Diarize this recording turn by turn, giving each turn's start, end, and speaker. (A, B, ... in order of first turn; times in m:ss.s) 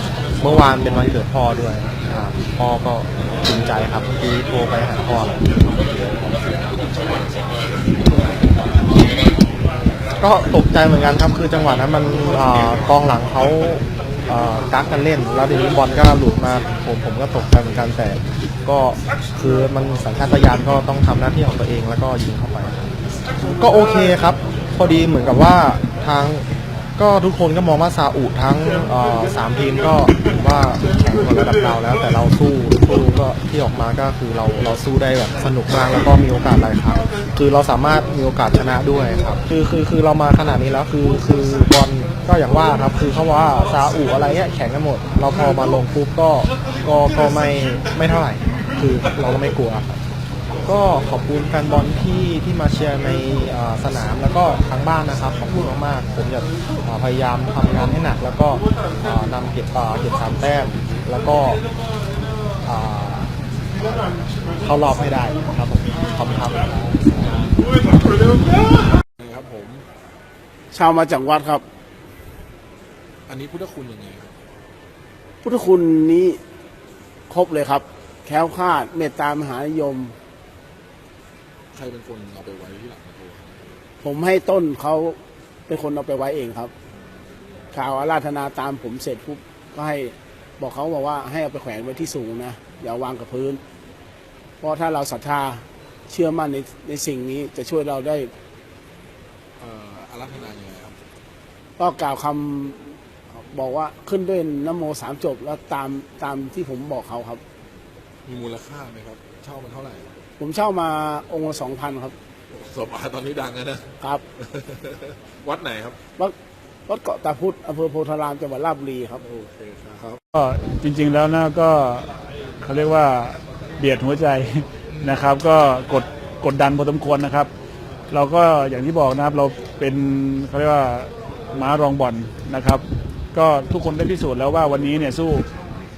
0:00.4-0:05.4 A
0:10.2-0:22.8 A
0:23.4-0:26.4 A
0:27.0-0:49.9 A
0:50.6-1:01.6 A
1:02.6-1:03.3 A
1:04.6-1:07.5 A
1:09.2-1:09.8 B
1:10.7-1:11.6 C
1:13.3-1:14.3 B
1:15.4-1:16.4 C
1:17.3-1:20.1 C
1:21.7-1:23.7 B
1:24.0-1:25.2 C
1:25.7-1:26.7 C
1:27.7-1:33.6 C
1:34.6-1:38.3 C
1:39.6-1:41.0 B
1:41.8-1:42.8 C
1:43.3-1:47.4 C
1:48.2-1:50.1 B
1:50.4-1:52.1 C
1:52.5-1:53.8 B
1:54.4-1:56.0 B
1:56.9-1:59.2 C
1:59.2-2:00.2 B
2:00.3-2:07.5 D
2:08.1-2:15.4 D